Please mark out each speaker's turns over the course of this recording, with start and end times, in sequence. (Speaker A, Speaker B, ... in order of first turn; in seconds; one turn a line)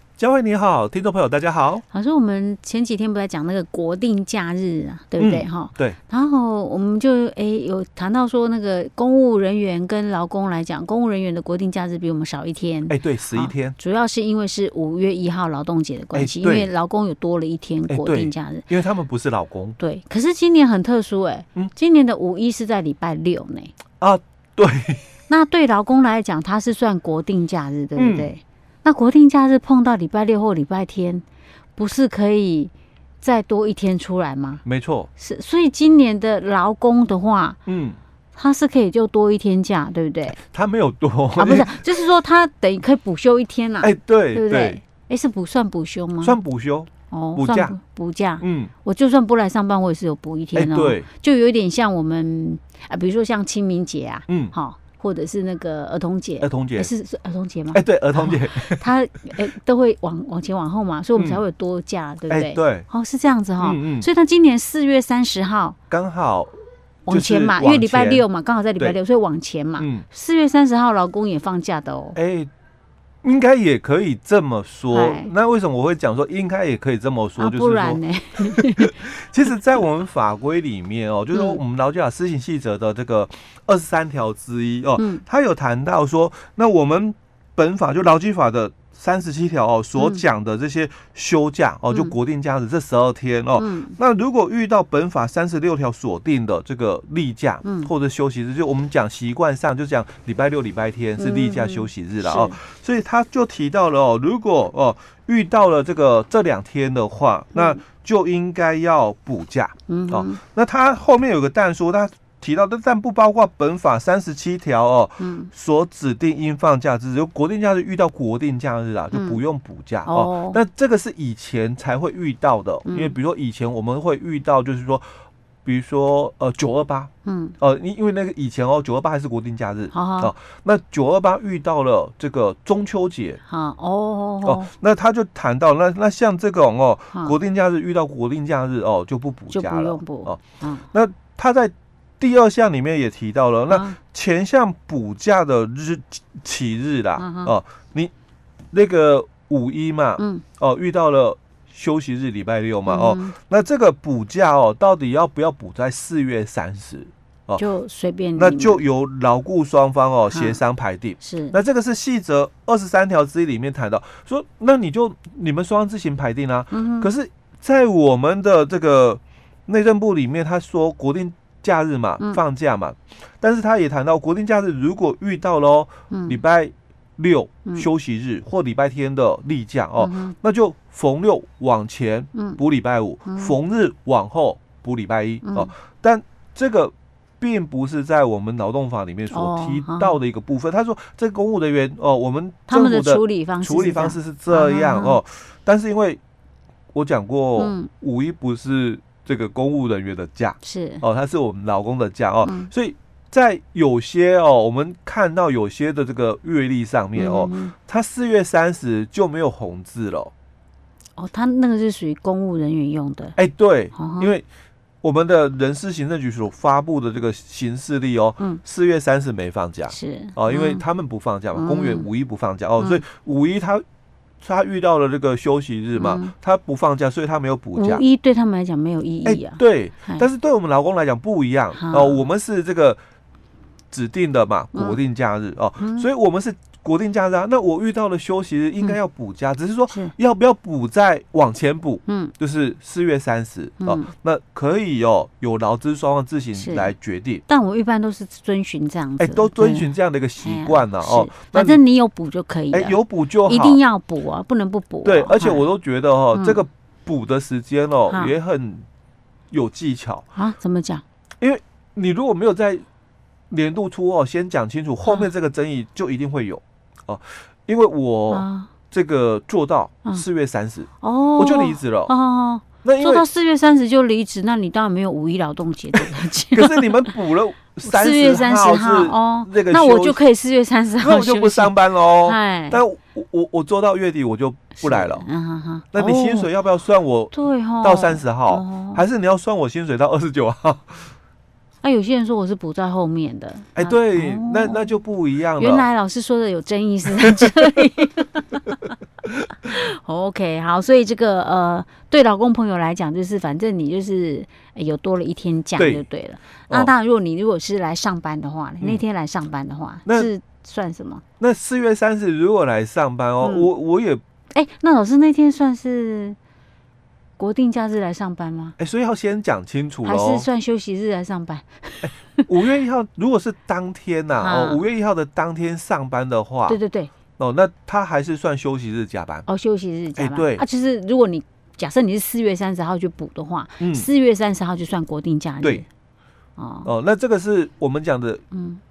Speaker A: 0.2-1.8
Speaker B: 1.9-18.7
Speaker A: 5.2-6.0
Speaker A: 12.9-13.8
Speaker A: 16.1-16.7
Speaker A: 17.9-19.8
Speaker B: 19.8-23.7
Speaker A: 24.0-25.1
Speaker B: 25.3-31.2
Speaker A: 28.0-28.3
Speaker B: 31.8-34.6
Speaker A: 34.6-35.1
Speaker B: 35.2-37.6
Speaker A: 37.7-38.0
Speaker B: 38.4-40.4
Speaker A: 40.3-42.0
Speaker B: 41.4-46.4
Speaker A: 43.8-44.8
Speaker A: 46.2-47.8
Speaker B: 47.1-65.8
Speaker A: 48.4-48.7
Speaker A: 50.5-51.1
Speaker A: 54.3-54.5
Speaker A: 56.4-56.9
Speaker A: 57.7-58.9
Speaker A: 61.2-61.4
Speaker A: 62.3-62.9
Speaker A: 63.6-64.1
Speaker A: 65.9-66.5
Speaker B: 67.1-72.2
Speaker A: 67.1-68.3
Speaker A: 69.8-70.0
Speaker A: 72.2-72.5
Speaker A: 73.2-125.0
Speaker B: 74.9-75.3
Speaker B: 77.4-79.0
Speaker B: 81.3-81.6
Speaker B: 85.0-85.2
Speaker B: 90.0-90.2
Speaker B: 91.9-92.2
Speaker B: 93.6-94.0
Speaker B: 97.6-97.9
Speaker B: 101.2-102.6
Speaker B: 107.5-107.8
Speaker B: 109.9-110.4
Speaker B: 115.2-115.5
Speaker B: 119.1-119.4
Speaker B: 120.1-120.6
Speaker B: 122.8-123.2
Speaker A: 125.7-127.1
Speaker B: 127.2-127.5
Speaker A: 127.6-133.4
Speaker B: 129.9-130.3
Speaker B: 133.4-134.7
Speaker A: 134.4-148.1
Speaker B: 139.5-140.9
Speaker B: 143.7-144.0
Speaker B: 147.2-147.6
Speaker A: 148.7-157.6
Speaker B: 150.2-150.4
Speaker B: 152.9-153.3
Speaker B: 157.6-158.8
Speaker A: 158.4-196.2
Speaker B: 160.3-160.6
Speaker B: 161.2-161.6
Speaker B: 166.7-167.1
Speaker B: 176.1-176.4
Speaker B: 180.0-180.3
Speaker B: 182.3-182.6
Speaker B: 183.3-183.5
Speaker B: 185.4-185.7
Speaker B: 189.3-190.2
Speaker B: 192.7-195.2
Speaker A: 196.9-210.3
Speaker B: 197.6-197.9
Speaker B: 200.6-201.0
Speaker B: 202.4-202.7
Speaker B: 207.2-207.7
Speaker B: 211.2-213.4
Speaker A: 213.4-214.4
Speaker B: 213.9-214.3
Speaker A: 215.0-223.8
Speaker B: 219.9-220.8
Speaker B: 221.5-222.1
Speaker A: 224.4-228.0
Speaker B: 226.0-226.3
Speaker B: 227.8-230.3
Speaker A: 229.2-233.0
Speaker B: 231.7-232.2
Speaker A: 233.9-247.4
Speaker B: 234.7-235.0
Speaker B: 235.8-236.1
Speaker B: 242.1-242.3
Speaker B: 243.8-244.1
Speaker B: 246.6-246.9
Speaker B: 247.5-255.7
Speaker A: 249.2-251.8
Speaker A: 252.7-253.8
Speaker A: 255.0-258.9
Speaker B: 256.3-256.6
Speaker B: 258.1-258.3
Speaker A: 259.5-260.2
Speaker B: 260.3-261.0
Speaker A: 261.4-262.8
Speaker A: 263.5-272.1
Speaker B: 268.3-268.7
Speaker B: 271.0-277.1
Speaker A: 272.8-273.3
Speaker A: 276.0-280.2
Speaker B: 277.8-282.8
Speaker A: 281.0-285.3
Speaker B: 284.8-286.5
Speaker A: 285.9-291.1
Speaker B: 287.3-289.0
Speaker B: 291.8-294.9
Speaker A: 293.8-295.9
Speaker B: 295.6-298.9
Speaker B: 299.6-311.2
Speaker A: 305.8-306.1
Speaker A: 310.1-310.3
Speaker A: 311.4-314.2
Speaker B: 313.4-313.7
Speaker B: 314.5-316.4
Speaker B: 317.4-318.8
Speaker A: 318.8-320.5
Speaker B: 320.0-322.5
Speaker A: 322.0-326.8
Speaker B: 324.4-324.8
Speaker B: 326.7-327.1
Speaker A: 327.4-329.5
Speaker B: 329.5-335.9
Speaker A: 330.2-330.6
Speaker A: 333.8-334.1
Speaker B: 336.6-336.9
Speaker A: 336.9-338.4
Speaker B: 338.5-338.8